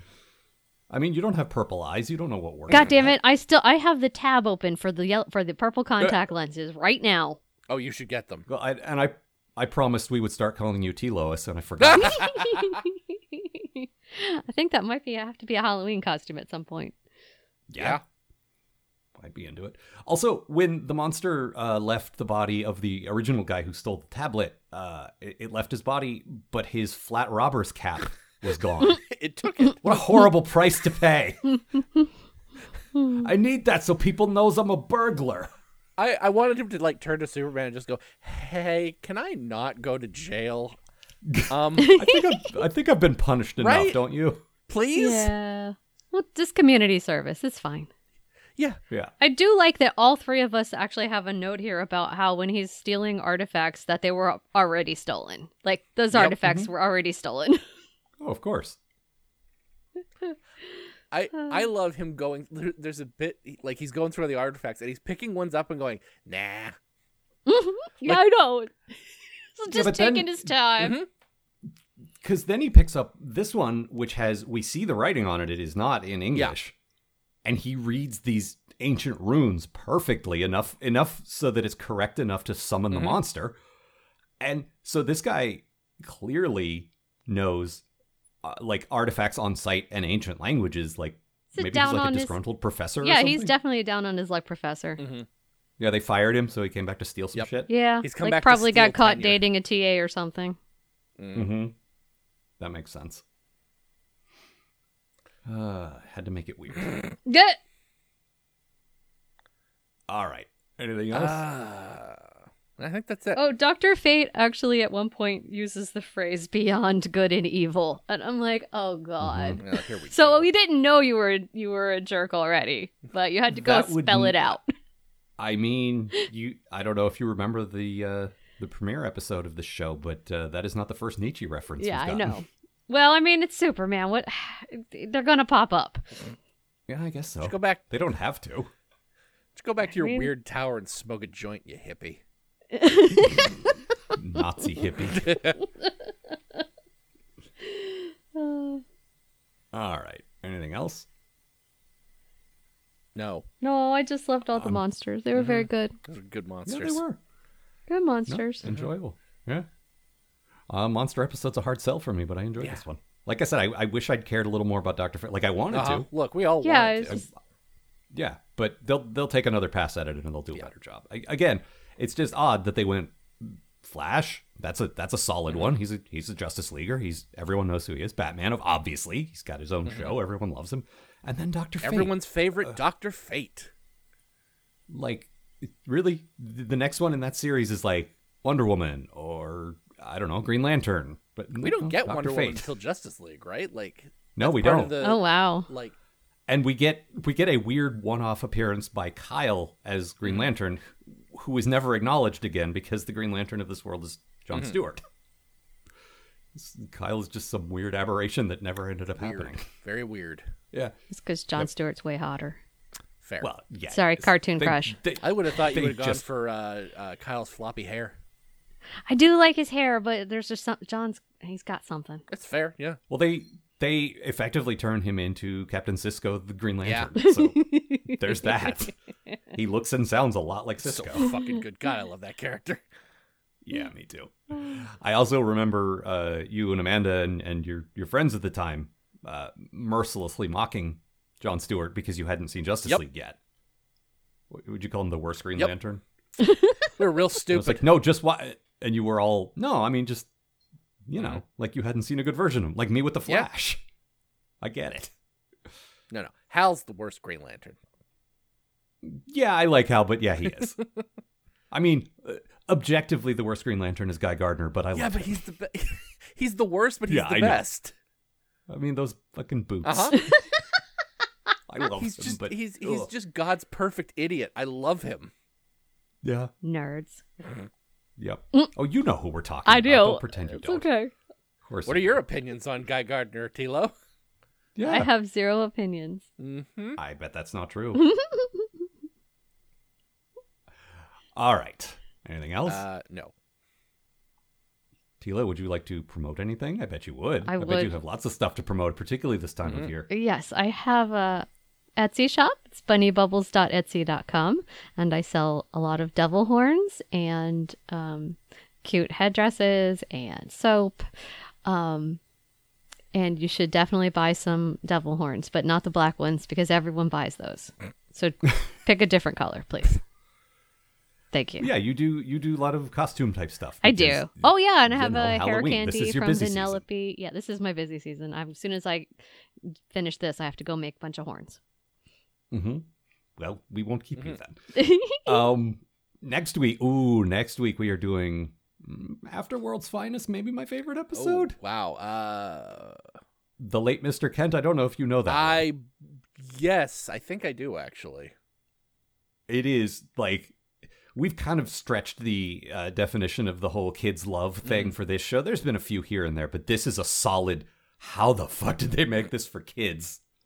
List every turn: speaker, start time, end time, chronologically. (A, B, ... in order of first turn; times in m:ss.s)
0:00.9-0:03.2 A
0:02.7-0:07.4 B
0:07.7-0:08.4 C
0:08.5-0:12.3 A
0:11.8-0:12.5 C
0:12.1-0:16.9 B
0:17.7-0:18.0 A
0:17.8-0:18.0 C
0:19.2-0:29.0 A
0:28.9-0:30.2 C
0:29.8-0:31.4 A
0:33.1-0:35.5 A
0:36.0-0:40.8 C
0:41.3-0:44.4 A
0:41.5-0:41.9 C
0:41.8-0:42.5 B
0:43.6-0:44.0 C
0:44.7-0:45.3 C
0:44.9-0:47.9 B
0:49.2-0:57.6 B
0:56.1-0:56.7 A
0:58.2-0:58.8 A
1:01.1-1:06.7 C
1:07.5-1:08.7 B
1:09.5-1:11.0 B
1:09.7-1:10.5 A
1:10.8-1:11.1 C
1:12.2-1:16.7 A
1:17.4-1:23.6 A
1:22.9-1:23.2 C
1:24.4-1:27.8 A
1:28.4-1:33.6 A
1:31.5-1:32.4 B
1:33.0-1:35.0 B
1:35.0-1:35.2 C
1:35.8-1:37.7 A
1:37.7-1:40.6 B
1:38.0-1:39.4 C
1:41.2-1:41.5 C
1:41.3-1:41.7 A
1:42.6-1:43.2 A
1:45.4-1:47.0 A
1:47.2-1:47.6 B
1:50.1-1:51.4 A
1:51.1-1:52.2 C
1:52.8-1:53.4 C
1:53.3-2:04.7 B
1:59.2-1:59.6 A
1:59.6-2:00.5 C
2:03.5-2:04.6 A
2:05.4-2:12.4 A
2:11.8-2:16.1 B
2:16.9-2:18.7 A
2:17.4-2:17.8 C
2:19.6-2:22.2 C
2:20.0-2:20.3 B
2:22.7-2:23.6 B
2:24.1-2:25.4 A
2:25.2-2:25.5 C
2:27.6-2:28.8 B
2:29.7-2:31.1 A
2:33.1-2:33.4 C
2:33.6-2:35.9 B
2:34.5-2:34.8 A
2:35.3-2:37.0 C
2:36.7-2:37.2 A
2:37.9-2:38.7 B
2:38.3-2:39.7 A
2:40.7-2:46.1 A
2:45.7-2:47.2 C
2:46.6-2:47.3 B
2:47.1-2:47.3 A
2:48.1-3:02.8 A
2:59.8-3:00.2 C
3:01.8-3:03.7 C
3:04.9-3:12.7 A
3:11.6-3:15.9 C
3:14.4-3:15.0 A
3:15.0-3:15.7 B
3:16.5-3:25.0 A
3:24.5-3:24.8 C
3:26.5-3:29.6 A
3:29.2-3:30.5 C
3:31.1-3:32.6 B
3:33.2-3:33.5 C
3:33.4-3:36.2 A
3:33.9-3:35.0 B
3:35.2-3:38.2 C
3:39.1-3:42.2 B
3:42.3-3:43.0 C
3:43.1-3:48.9 A
3:46.8-3:47.1 C
3:47.2-3:48.7 B
3:49.5-3:51.3 A
3:50.8-3:52.8 C
3:53.6-4:03.4 A
4:04.5-4:06.0 A
4:06.4-4:06.8 B
4:07.0-4:07.9 C
4:07.5-4:10.3 A
4:11.1-4:13.8 A
4:14.6-4:15.1 A
4:16.1-4:17.8 C
4:19.0-4:20.8 A
4:21.7-4:25.4 A
4:24.9-4:27.9 C
4:27.1-4:27.6 A
4:28.7-4:30.2 A
4:29.8-4:30.2 C
4:30.2-4:30.6 B
4:31.7-4:33.1 A
4:31.9-4:35.3 C
4:36.2-4:36.5 A
4:36.6-4:37.2 B
4:38.2-4:40.9 A
4:39.6-4:41.1 B
4:41.6-4:42.2 A
4:41.8-4:43.9 C
4:44.7-4:45.1 A
4:44.8-4:46.2 B
4:46.4-4:47.0 C
4:47.0-4:48.1 A
4:47.9-4:48.7 B
4:51.4-4:52.8 A
4:52.6-4:53.3 C
4:55.2-5:00.1 A
4:57.4-4:57.9 B
5:00.1-5:11.0 B
5:11.6-5:12.2 B
5:13.1-5:20.0 B
5:21.3-5:21.7 B
5:21.6-5:26.8 A
5:23.8-5:29.1 B
5:29.6-5:31.6 B
5:32.5-5:41.6 A
5:34.7-5:35.4 B
5:41.1-5:43.0 C
5:43.6-5:45.6 A
5:45.3-5:48.3 C
5:49.5-5:50.6 A
5:51.1-6:00.2 A
5:54.6-5:54.9 C